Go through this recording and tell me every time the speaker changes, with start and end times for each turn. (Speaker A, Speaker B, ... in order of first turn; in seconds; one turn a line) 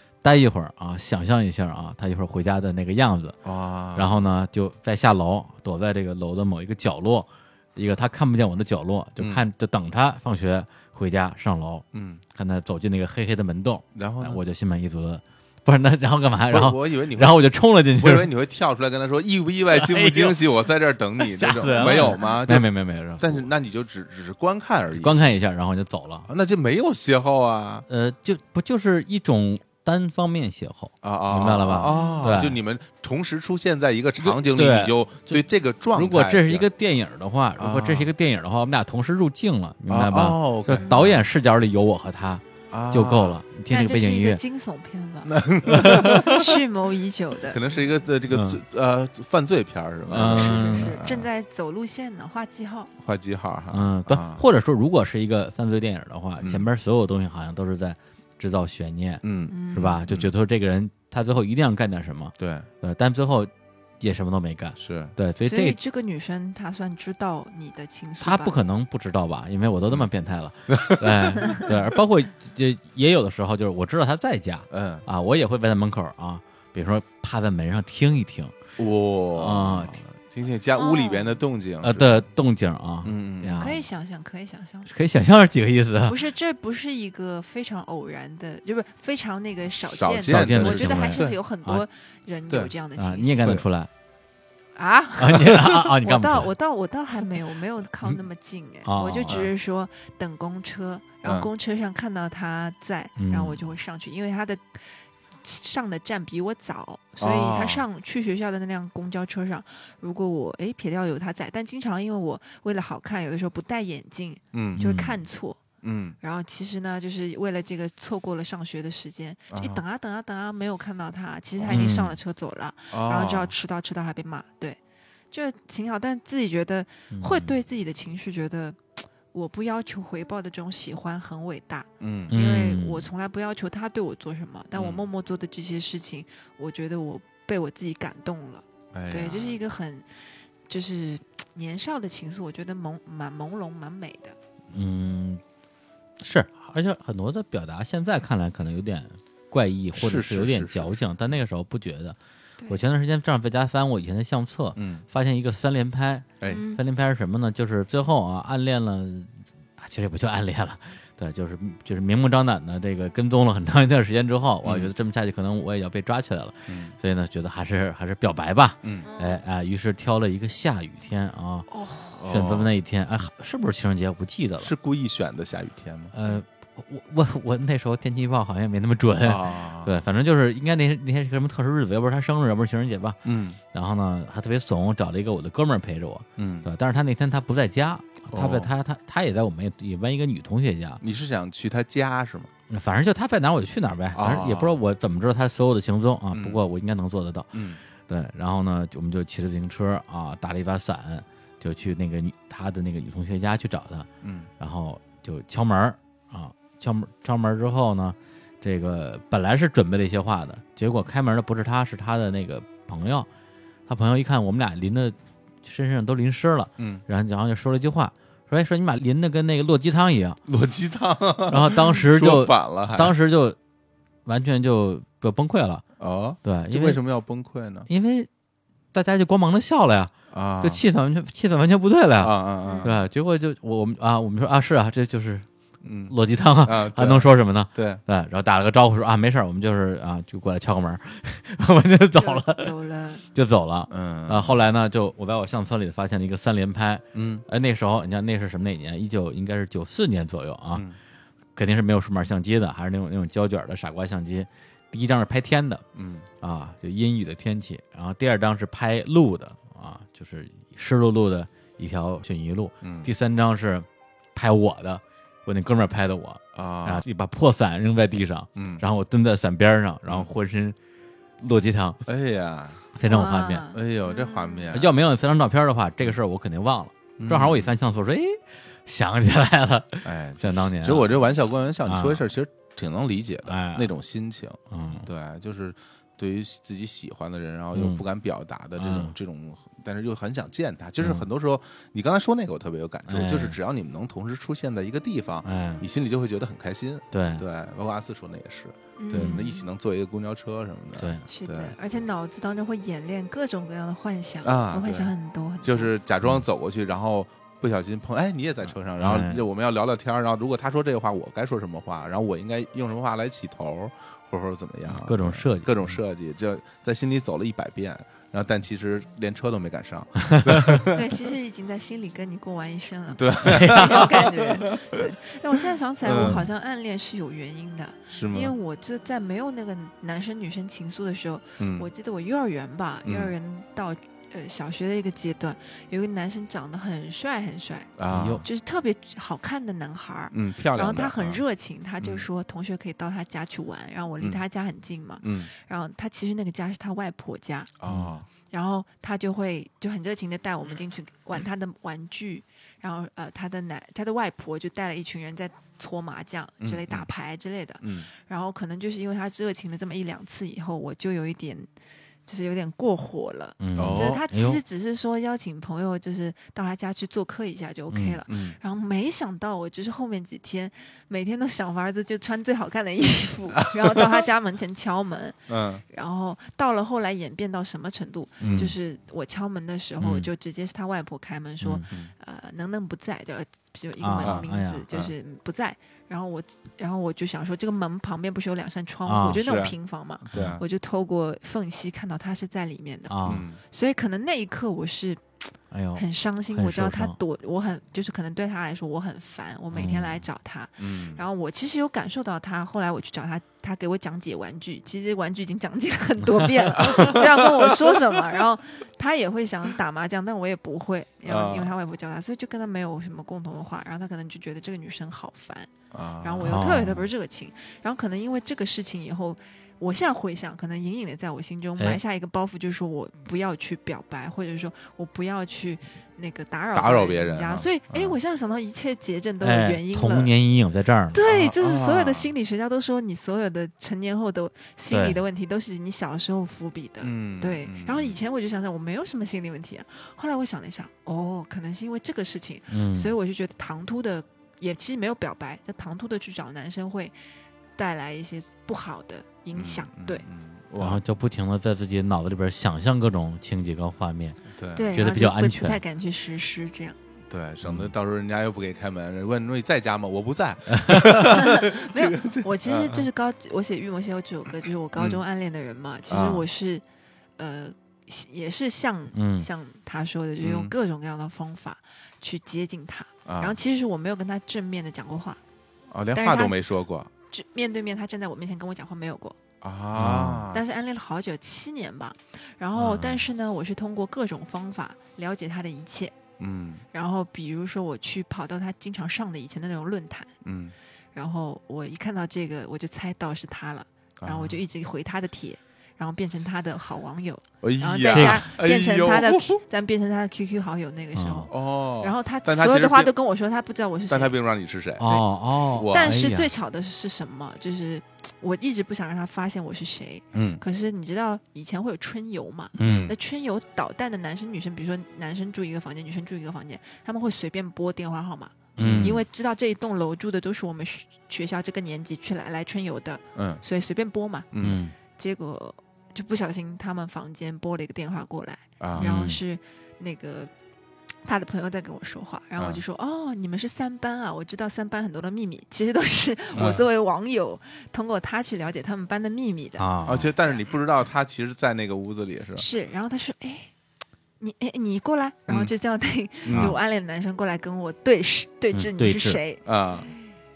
Speaker A: 0.2-3.4
Speaker B: 3.5-4.2
Speaker A: 4.0-18.3
Speaker B: 9.2-9.4
Speaker B: 11.9-12.2
Speaker B: 13.9-14.4
Speaker B: 16.5-25.1
Speaker A: 19.7-20.5
Speaker A: 21.2-23.5
Speaker A: 25.0-26.3
Speaker B: 26.3-27.9
Speaker A: 27.9-32.6
Speaker B: 31.0-36.7
Speaker C: 31.8-32.4
Speaker A: 34.2-35.4
Speaker A: 35.9-44.4
Speaker B: 37.6-38.1
Speaker B: 39.9-41.2
Speaker B: 42.7-43.4
Speaker C: 43.7-47.6
Speaker B: 45.3-46.4
Speaker A: 45.7-46.5
Speaker B: 47.5-51.3
Speaker A: 48.3-48.6
Speaker A: 50.1-51.0
Speaker C: 50.1-52.9
Speaker B: 53.0-54.4
Speaker A: 53.7-65.8
Speaker B: 56.4-56.7
Speaker B: 59.2-60.3
Speaker C: 59.5-60.0
Speaker B: 62.4-62.7
Speaker B: 64.8-65.1
Speaker C: 65.4-68.6
Speaker A: 68.2-78.5
Speaker B: 70.7-71.8
Speaker B: 74.7-75.1
Speaker B: 78.8-82.2
Speaker A: 79.3-80.0
Speaker C: 80.8-81.4
Speaker A: 81.8-83.8
Speaker B: 83.0-83.7
Speaker C: 83.5-84.9
Speaker A: 84.9-86.2
Speaker C: 86.0-93.6
Speaker B: 89.9-91.4
Speaker A: 90.3-91.8
Speaker A: 93.0-93.9
Speaker C: 94.8-115.6
Speaker A: 95.2-96.5
Speaker A: 98.8-99.4
Speaker A: 103.2-103.7
Speaker B: 107.2-107.8
Speaker B: 114.5-114.8
Speaker A: 114.8-115.2
Speaker B: 115.8-116.2
Speaker C: 116.2-124.8
Speaker B: 119.5-119.8
Speaker B: 121.6-121.9
Speaker A: 121.7-122.1
Speaker B: 122.9-123.5
Speaker C: 125.3-140.1
Speaker A: 127.1-127.5
Speaker B: 132.0-132.3
Speaker A: 132.3-133.1
Speaker B: 134.7-135.0
Speaker B: 138.9-139.6
Speaker C: 140.7-144.4
Speaker A: 144.7-145.4
Speaker A: 146.2-152.2
Speaker B: 149.9-151.0
Speaker A: 152.7-171.7
Speaker B: 154.8-155.0
Speaker C: 156.5-156.8
Speaker B: 164.6-164.9
Speaker B: 166.7-166.9
Speaker B: 168.8-169.1
Speaker C: 169.1-169.4
Speaker C: 171.7-172.2
Speaker B: 172.2-172.7
Speaker A: 172.3-174.7
Speaker B: 174.6-176.1
Speaker A: 176.1-183.2
Speaker B: 179.2-179.9
Speaker B: 183.2-183.6
Speaker A: 183.7-191.0
Speaker B: 186.4-186.7
Speaker B: 188.3-188.7
Speaker B: 191.0-192.5
Speaker A: 192.7-204.1
Speaker B: 194.1-194.8
Speaker B: 196.3-196.6
Speaker B: 197.5-197.8
Speaker B: 204.2-204.5
Speaker A: 204.6-213.3
Speaker A: 213.9-220.4
Speaker B: 220.5-223.1
Speaker A: 221.5-223.6
Speaker A: 224.3-225.8
Speaker B: 226.0-227.9
Speaker A: 226.4-227.0
Speaker A: 227.9-228.3
Speaker A: 228.9-235.4
Speaker B: 230.3-230.8
Speaker B: 232.2-233.1
Speaker C: 232.6-232.9
Speaker B: 235.8-238.0
Speaker A: 236.1-242.7
Speaker C: 242.1-243.2
Speaker A: 243.3-250.9
Speaker B: 243.9-244.6
Speaker B: 247.1-247.4
Speaker A: 251.6-255.8
Speaker B: 255.9-256.3
Speaker A: 256.4-270.8
Speaker B: 262.8-263.1
Speaker B: 266.6-267.1
Speaker B: 268.6-268.8
Speaker A: 271.4-272.0
Speaker B: 272.1-272.9
Speaker A: 272.9-273.7
Speaker C: 273.1-274.7
Speaker B: 273.7-274.9
Speaker A: 274.7-281.3
Speaker B: 277.2-277.7
Speaker B: 280.0-301.7
Speaker A: 281.9-282.2
Speaker A: 283.4-283.9
Speaker A: 284.7-285.1
Speaker A: 287.7-288.0
Speaker A: 288.8-289.1
Speaker A: 293.1-293.6
Speaker A: 295.4-295.8
Speaker A: 297.1-297.4
Speaker C: 299.0-299.6
Speaker A: 299.1-299.4
Speaker A: 301.0-301.2
Speaker C: 301.3-305.9
Speaker B: 304.4-321.0
Speaker A: 309.0-309.4
Speaker A: 314.9-315.9
Speaker A: 320.3-320.8
Speaker C: 320.9-347.7
Speaker B: 323.1-325.0
Speaker A: 323.5-324.1
Speaker B: 326.0-326.4
Speaker A: 326.2-326.4
Speaker B: 328.1-328.5
Speaker B: 331.6-331.9
Speaker B: 333.1-333.3
Speaker B: 338.0-338.4
Speaker A: 338.1-338.4
Speaker B: 340.3-341.4
Speaker B: 342.0-342.3
Speaker B: 345.2-345.5
Speaker B: 347.8-348.3
Speaker A: 347.9-348.1
Speaker C: 348.4-361.7
Speaker B: 356.6-357.1
Speaker B: 357.8-358.1
Speaker C: 362.3-375.4
Speaker A: 363.6-364.6
Speaker B: 363.8-364.2
Speaker A: 367.9-368.2
Speaker B: 368.3-368.6
Speaker B: 375.5-375.8
Speaker C: 375.9-430.3
Speaker B: 378.4-378.7
Speaker A: 378.4-378.7
Speaker A: 380.0-380.3
Speaker A: 381.6-381.9
Speaker A: 384.0-384.9
Speaker B: 384.2-385.1
Speaker A: 389.1-389.4
Speaker B: 389.4-389.7
Speaker B: 390.3-390.6
Speaker A: 393.1-393.4
Speaker B: 393.2-393.6
Speaker A: 395.7-397.2
Speaker A: 399.7-400.2
Speaker B: 400.8-401.2
Speaker B: 406.8-407.9
Speaker B: 411.3-411.7
Speaker B: 415.9-416.7
Speaker A: 416.4-417.1
Speaker B: 426.7-428.2
Speaker A: 429.4-431.2
Speaker C: 431.1-447.1
Speaker B: 431.2-432.3
Speaker A: 434.9-435.2
Speaker B: 437.0-438.2
Speaker A: 442.7-443.1
Speaker C: 447.8-450.2
Speaker B: 449.6-451.0
Speaker A: 450.8-454.4
Speaker B: 454.6-454.9
Speaker C: 454.7-457.0
Speaker A: 454.9-455.8
Speaker B: 457.3-463.1
Speaker A: 457.6-457.9
Speaker A: 460.7-461.1
Speaker C: 461.4-466.8
Speaker B: 466.1-466.4
Speaker C: 467.4-475.4
Speaker A: 469.1-469.5
Speaker B: 470.4-470.7
Speaker B: 473.3-473.6
Speaker B: 475.9-477.1
Speaker C: 476.1-476.6
Speaker C: 477.3-479.4
Speaker B: 479.6-480.6
Speaker A: 479.9-480.4
Speaker C: 480.5-486.2
Speaker A: 482.8-483.2
Speaker B: 486.4-486.8
Speaker C: 486.9-490.3
Speaker B: 490.4-490.7
Speaker C: 491.1-504.4
Speaker B: 494.2-494.6
Speaker B: 497.6-499.6
Speaker A: 498.1-498.4
Speaker A: 501.1-501.5
Speaker B: 501.5-503.1
Speaker B: 504.1-506.2
Speaker A: 505.0-506.5
Speaker C: 505.9-524.5
Speaker B: 510.3-510.6
Speaker A: 512.8-513.1
Speaker B: 512.8-513.1
Speaker A: 518.8-519.2
Speaker B: 518.8-519.2
Speaker B: 523.4-523.6
Speaker B: 524.5-524.8
Speaker A: 524.6-524.9
Speaker C: 525.1-530.5
Speaker B: 528.8-529.1
Speaker A: 529.0-529.4
Speaker C: 531.2-540.6
Speaker B: 536.5-536.8
Speaker A: 536.6-536.8
Speaker A: 539.8-540.2
Speaker B: 540.1-542.7
Speaker C: 542.6-543.7
Speaker C: 544.4-549.6
Speaker B: 546.5-546.8
Speaker A: 546.5-546.8
Speaker A: 548.7-549.4
Speaker B: 549.6-550.1